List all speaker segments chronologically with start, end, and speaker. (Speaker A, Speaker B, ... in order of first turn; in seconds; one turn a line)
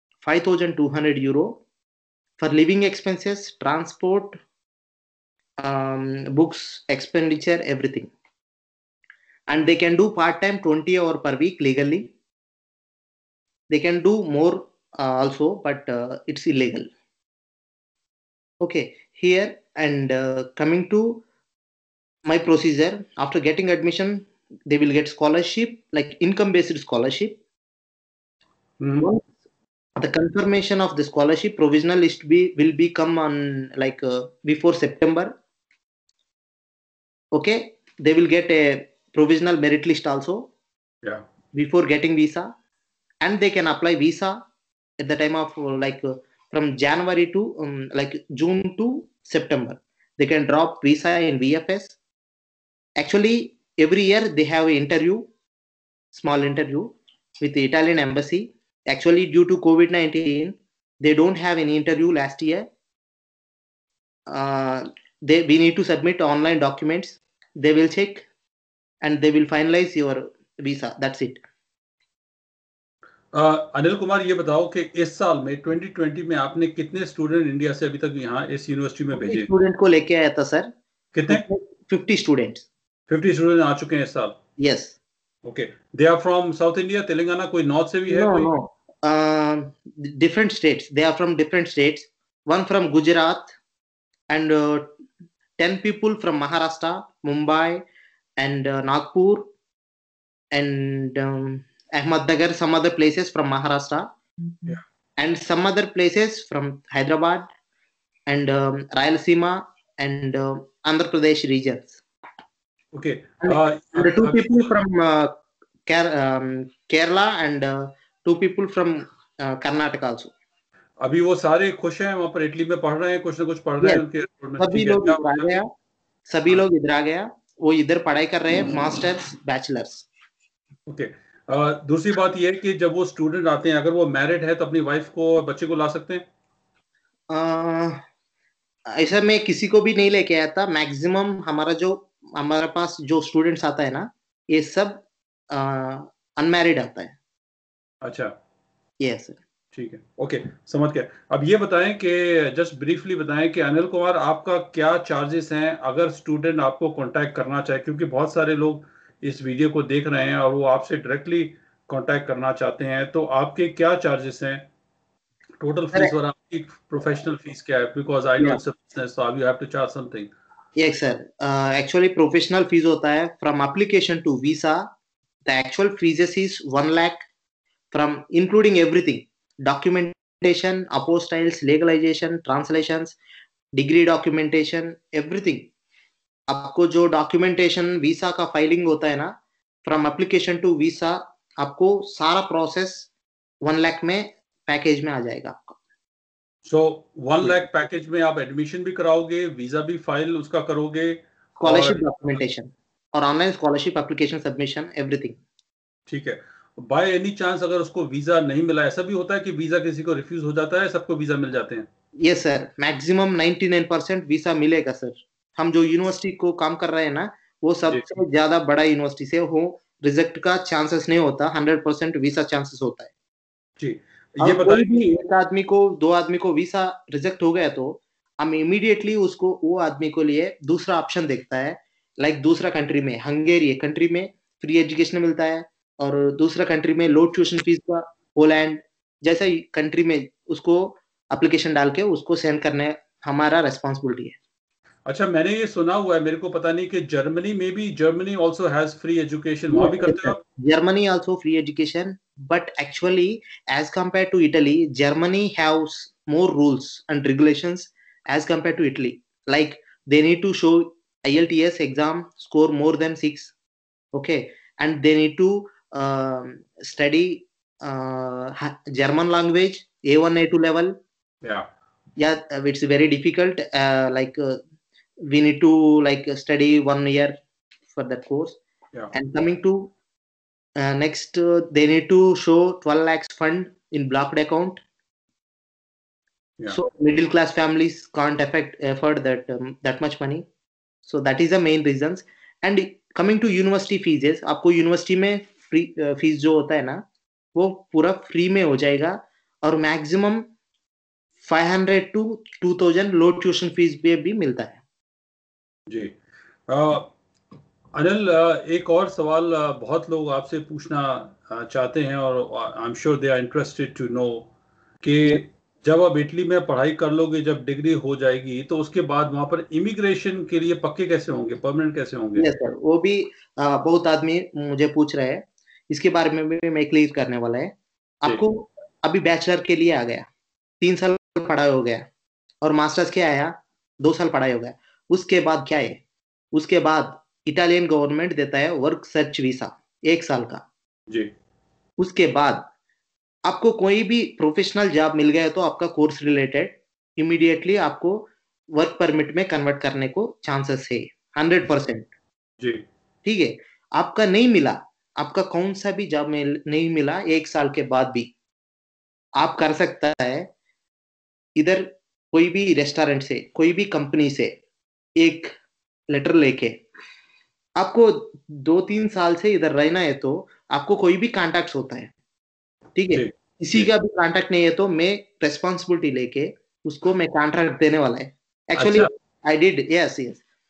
Speaker A: 0.2-1.6
Speaker A: 2.4-4.4
Speaker A: 5.6-8.1
Speaker A: 9.5-12.1
Speaker A: 13.7-16.9
Speaker A: 18.6-21.2
Speaker A: 22.3-27.4
Speaker B: 28.8-29.1
Speaker A: 29.0-29.3
Speaker A: 30.0-35.3
Speaker A: 37.3-40.5
Speaker A: 41.5-42.5
Speaker A: 43.2-44.4
Speaker A: 45.0-52.0
Speaker A: 53.0-55.3
Speaker A: 56.1-62.7
Speaker A: 64.3-68.3
Speaker A: 69.0-71.4
Speaker B: 73.3-79.5
Speaker A: 79.2-80.7
Speaker B: 81.1-81.4
Speaker A: 81.3-82.7
Speaker B: 83.1-84.4
Speaker A: 84.6-85.0
Speaker B: 85.5-88.5
Speaker A: 88.1-93.6
Speaker A: 94.3-94.9
Speaker A: 95.6-97.8
Speaker A: 98.4-99.5
Speaker A: 100.5-104.1
Speaker A: 105.2-107.5
Speaker A: 108.3-112.0
Speaker B: 112.9-114.7
Speaker A: 113.4-115.3
Speaker A: 115.9-120.3
Speaker B: 121.0-125.7
Speaker A: 124.6-125.7
Speaker A: 126.3-130.1
Speaker B: 130.9-136.2
Speaker A: 137.3-138.0
Speaker A: 138.9-147.2
Speaker B: 148.0-148.3
Speaker A: 149.0-149.4
Speaker B: 149.7-164.7
Speaker B: 165.6-170.3
Speaker A: 170.8-174.9
Speaker A: 175.5-177.3
Speaker A: 177.9-183.2
Speaker A: 183.7-185.7
Speaker A: 186.5-189.3
Speaker A: 189.8-193.1
Speaker A: 193.6-195.8
Speaker B: 196.7-202.0
Speaker A: 201.6-205.4
Speaker B: 206.1-211.9
Speaker A: 212.2-223.1
Speaker B: 223.8-225.2
Speaker A: 224.4-244.4
Speaker B: 245.1-250.4
Speaker A: 249.7-263.5
Speaker A: 264.1-270.9
Speaker A: 272.2-274.6
Speaker A: 275.2-277.3
Speaker A: 277.9-278.6
Speaker A: 279.1-279.9
Speaker A: 280.8-284.8
Speaker A: 286.7-290.4
Speaker A: 291.1-297.0
Speaker A: 297.6-300.5
Speaker A: 301.4-304.8
Speaker B: 305.9-306.1
Speaker B: 306.7-307.1
Speaker B: 307.9-314.5
Speaker B: 315.0-322.5
Speaker A: 322.4-330.3
Speaker A: 330.8-332.1
Speaker A: 332.6-336.0
Speaker A: 336.5-340.6
Speaker A: 342.0-342.6
Speaker A: 343.4-352.1
Speaker A: 353.2-358.3
Speaker A: 359.4-360.5
Speaker A: 361.6-364.5
Speaker A: 365.2-365.5
Speaker A: 366.1-366.8
Speaker A: 367.8-372.1
Speaker A: 372.9-380.4
Speaker B: 373.1-373.9
Speaker B: 378.8-379.1